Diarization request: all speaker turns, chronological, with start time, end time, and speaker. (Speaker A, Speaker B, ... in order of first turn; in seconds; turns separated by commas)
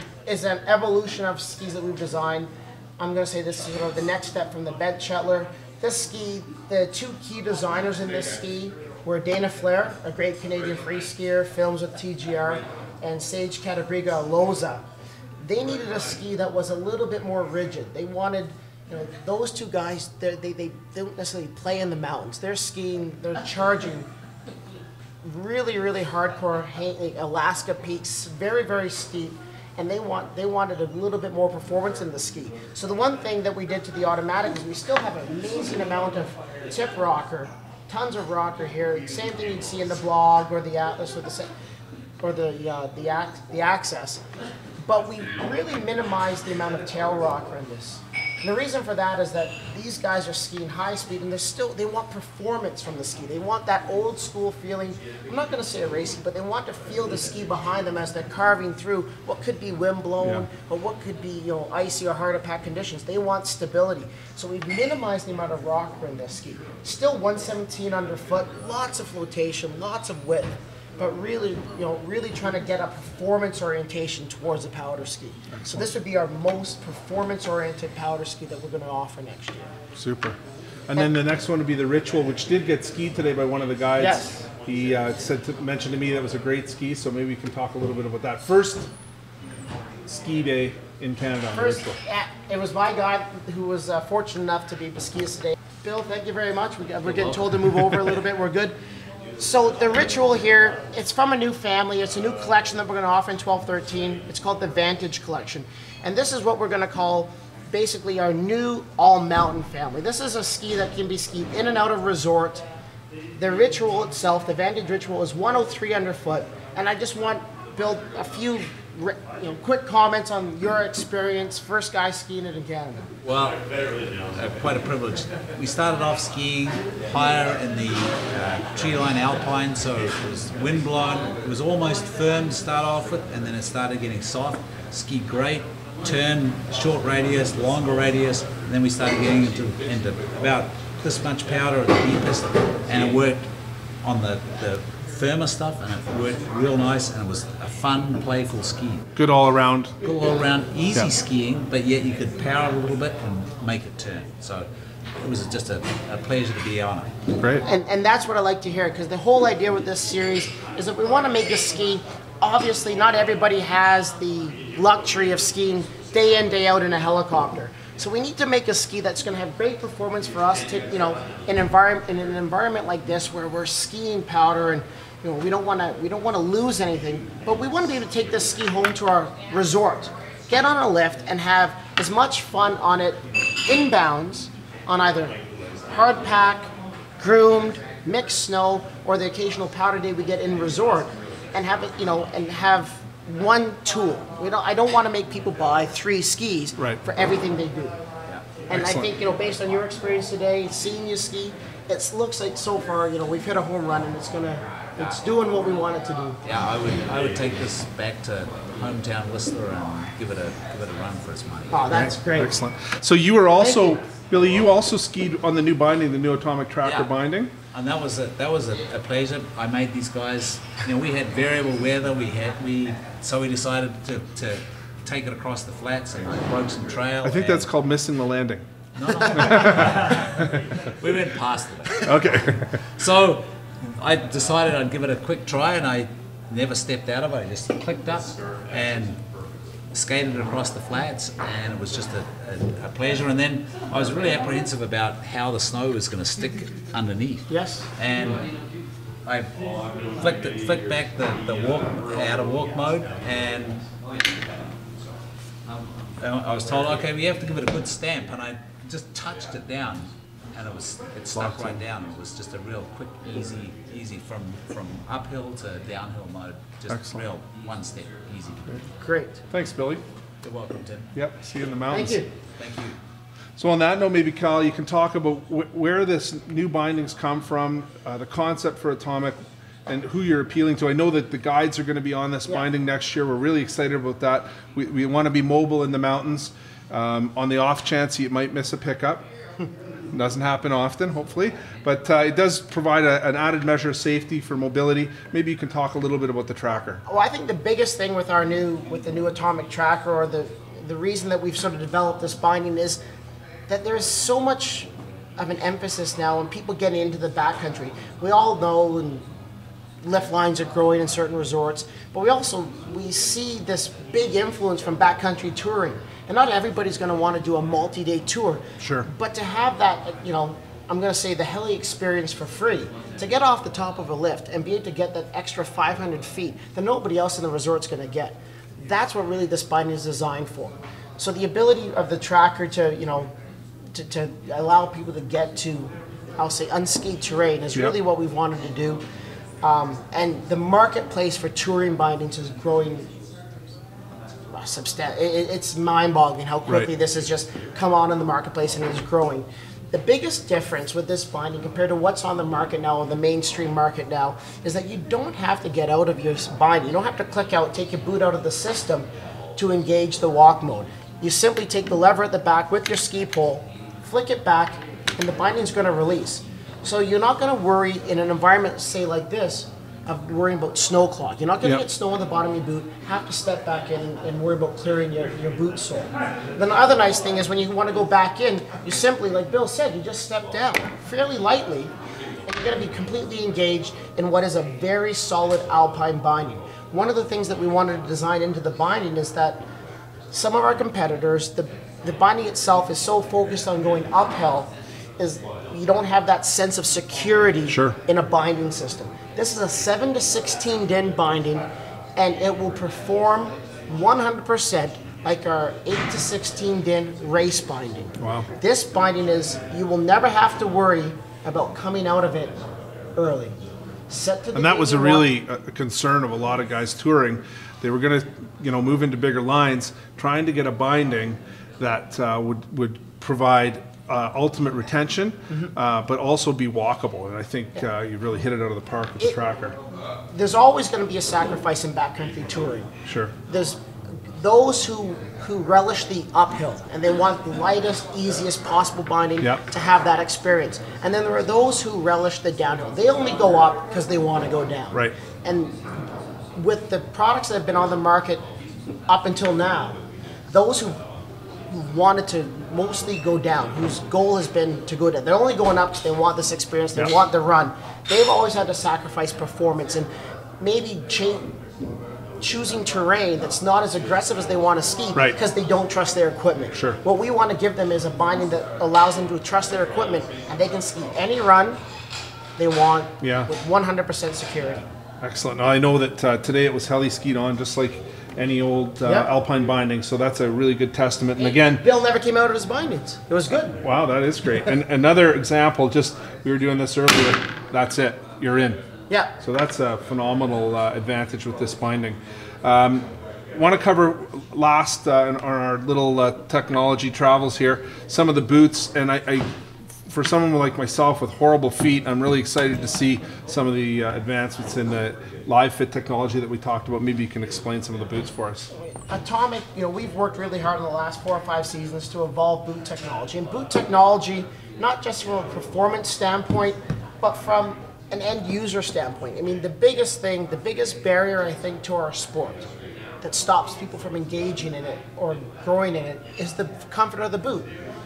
Speaker A: 0.3-14.8, Speaker A: 15.4-24.1, Speaker A: 25.2-41.5, Speaker A: 42.2-44.2, Speaker A: 44.8-79.7, Speaker B: 60.2-60.5, Speaker B: 75.5-75.9, Speaker B: 80.0-80.4, Speaker B: 80.9-88.9, Speaker A: 84.0-84.4, Speaker B: 90.1-92.0, Speaker A: 91.5-98.8, Speaker A: 99.4-112.6, Speaker A: 113.4-123.1, Speaker C: 123.2-123.6, Speaker C: 124.3-143.4, Speaker C: 144.0-149.0, Speaker B: 149.2-149.9, Speaker C: 150.0-154.7, Speaker C: 155.2-157.1, Speaker B: 157.4-157.6, Speaker A: 157.6-197.9, Speaker B: 196.8-197.0, Speaker A: 198.7-206.4, Speaker B: 198.7-199.1, Speaker C: 206.4-211.9, Speaker A: 211.7-212.5, Speaker B: 211.9-217.5, Speaker A: 213.6-214.0, Speaker C: 216.8-217.1, Speaker C: 217.7-227.7, Speaker B: 227.2-230.7, Speaker C: 229.0-239.2, Speaker B: 231.9-232.8, Speaker C: 239.9-248.5, Speaker A: 247.5-247.9, Speaker C: 249.2-249.6, Speaker C: 250.2-253.8, Speaker C: 256.2-268.8, Speaker B: 261.4-261.8, Speaker B: 266.9-267.3, Speaker A: 269.0-269.4, Speaker B: 269.5-270.0, Speaker C: 270.4-271.1, Speaker B: 271.1-272.2, Speaker A: 271.9-272.3, Speaker C: 272.6-273.0, Speaker B: 273.6-289.2, Speaker B: 290.1-297.0, Speaker A: 297.1-303.0, Speaker A: 303.7-309.2, Speaker A: 310.0-333.3, Speaker B: 318.8-319.1, Speaker A: 333.9-339.0, Speaker A: 339.6-343.1, Speaker A: 344.5-381.9, Speaker A: 382.5-389.6, Speaker A: 390.3-401.6, Speaker B: 397.7-398.0, Speaker A: 402.2-412.6, Speaker B: 408.2-408.5, Speaker A: 413.2-413.6, Speaker A: 414.1-415.3, Speaker B: 414.5-429.8, Speaker A: 430.3-432.9, Speaker B: 433.1-433.3, Speaker A: 433.5-445.8, Speaker A: 446.6-448.4, Speaker A: 449.1-450.0, Speaker A: 450.5-451.0, Speaker A: 451.7-460.1, Speaker A: 460.6-461.5, Speaker A: 462.4-471.8, Speaker A: 472.6-474.9, Speaker B: 473.2-473.5, Speaker B: 475.2-481.9, Speaker A: 479.1-479.3, Speaker A: 481.4-483.8, Speaker B: 483.8-488.8, Speaker A: 489.1-489.3, Speaker B: 489.4-499.5, Speaker B: 500.1-508.7, Speaker A: 508.8-522.7, Speaker A: 523.2-527.7